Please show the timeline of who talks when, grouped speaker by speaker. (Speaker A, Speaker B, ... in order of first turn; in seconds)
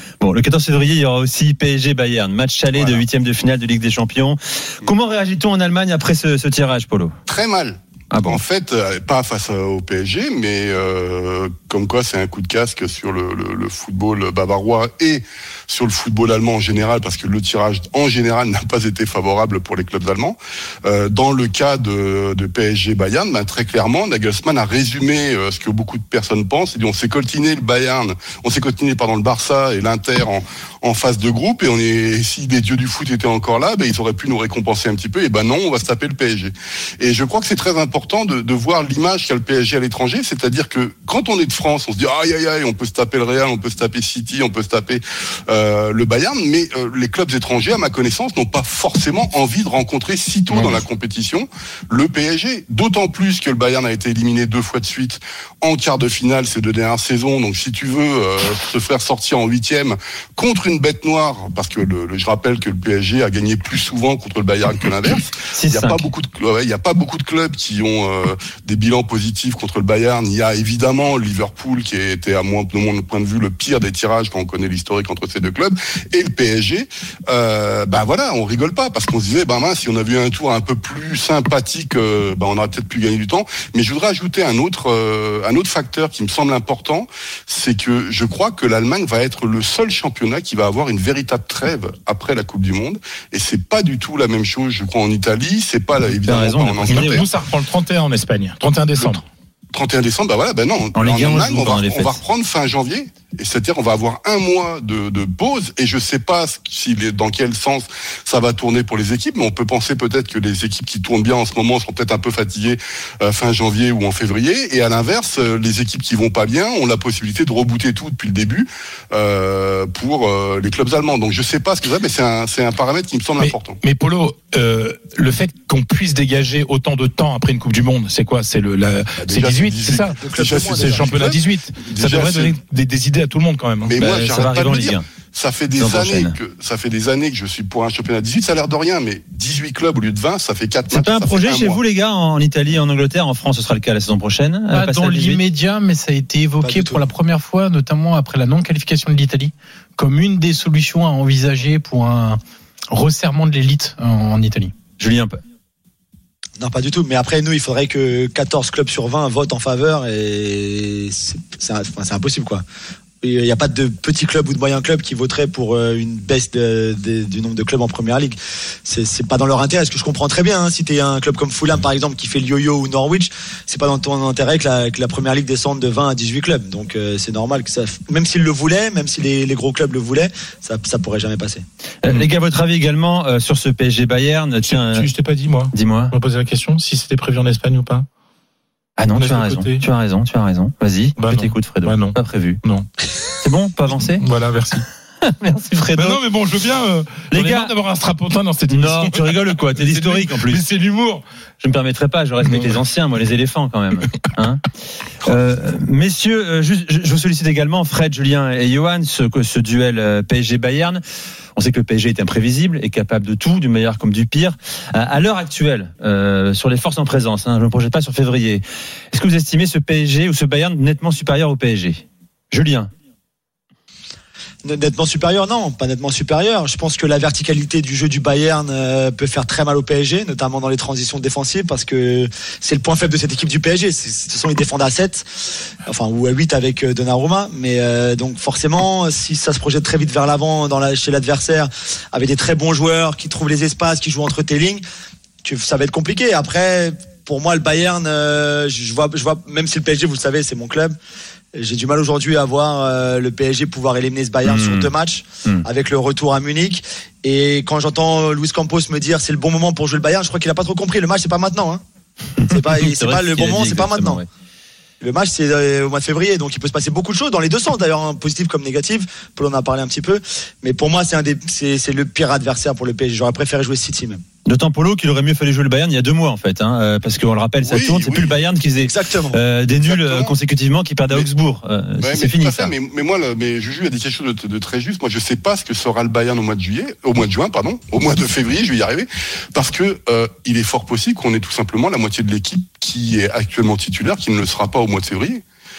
Speaker A: 0.2-7.2, 8.1-8.4, 50.5-50.8, 65.5-66.1, 96.2-97.2, 100.9-102.2, 134.0-135.1, 135.8-136.4, 140.9-145.4, 155.0-155.4, 182.0-185.1, 185.7-186.1, 189.0-192.6, 193.4-194.2, 195.3-196.2, 197.3-197.7, 198.7-200.6, 201.6-204.6, 205.2-211.0, 211.6-222.9, 254.4-254.9, 262.7-264.3, 274.4-282.7
Speaker B: 2.7-3.0, 7.3-97.2, 99.7-123.8, 129.2-132.6, 133.8-141.8, 277.6-278.4, 279.8-280.3, 282.0-295.4
Speaker C: 96.9-99.2, 123.4-130.2, 130.7-133.9, 184.6-188.1, 189.1-189.8, 191.2-192.9, 194.2-194.8, 195.9-201.2
Speaker D: 130.1-131.1, 146.6-147.0, 156.6-162.6, 163.2-181.6, 224.6-235.2, 235.8-244.8, 245.4-250.9, 251.5-261.8, 262.4-264.2, 265.0-274.2, 278.8-279.4
Speaker E: 144.7-152.4, 152.9-154.7